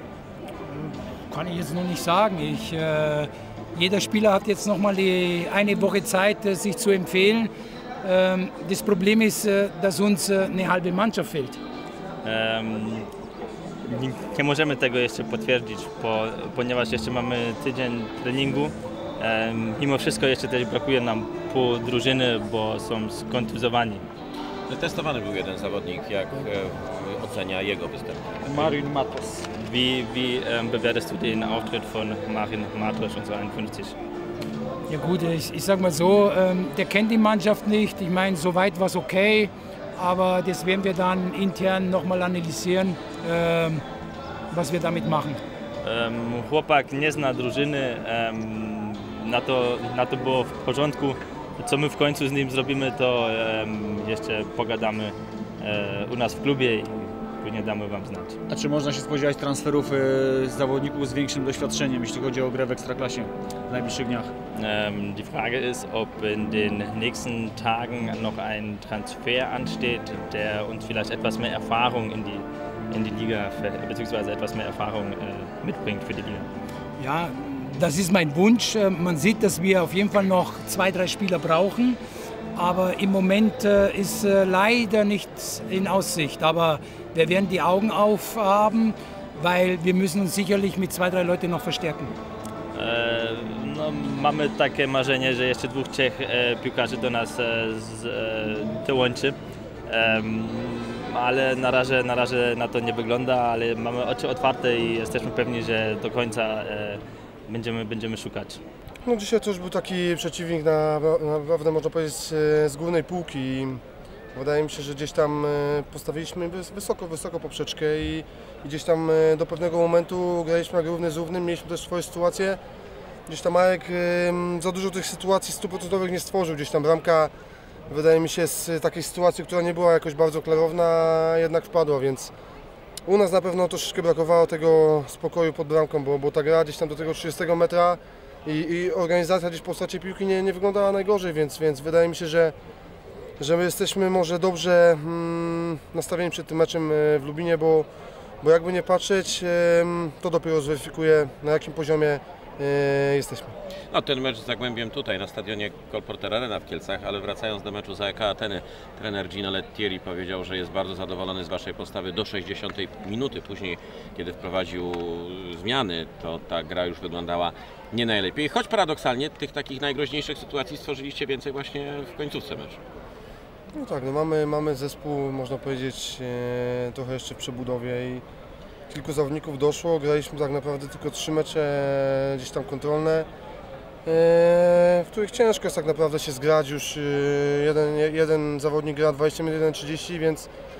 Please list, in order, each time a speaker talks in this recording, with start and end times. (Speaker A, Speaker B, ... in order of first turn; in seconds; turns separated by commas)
Speaker A: 0.7-7.5, Speaker A: 8.0-11.6, Speaker B: 12.2-13.1, Speaker B: 13.8-24.0, Speaker C: 24.7-28.4, Speaker D: 28.4-29.5, Speaker B: 29.6-34.0, Speaker A: 34.9-43.8, Speaker A: 44.5-45.4, Speaker B: 45.8-58.3, Speaker D: 58.5-64.3, Speaker B: 64.5-76.5, Speaker A: 77.0-82.0, Speaker A: 82.5-92.1, Speaker B: 92.7-108.6, Speaker E: 109.0-113.8, Speaker E: 114.3-122.6, Speaker E: 123.3-127.3, Speaker E: 127.9-132.3, Speaker E: 133.1-142.5, Speaker E: 143.4-147.9, Speaker E: 148.4-153.5, Speaker C: 153.9-172.8, Speaker E: 173.7-178.2, Speaker E: 178.9-183.3, Speaker E: 184.0-190.5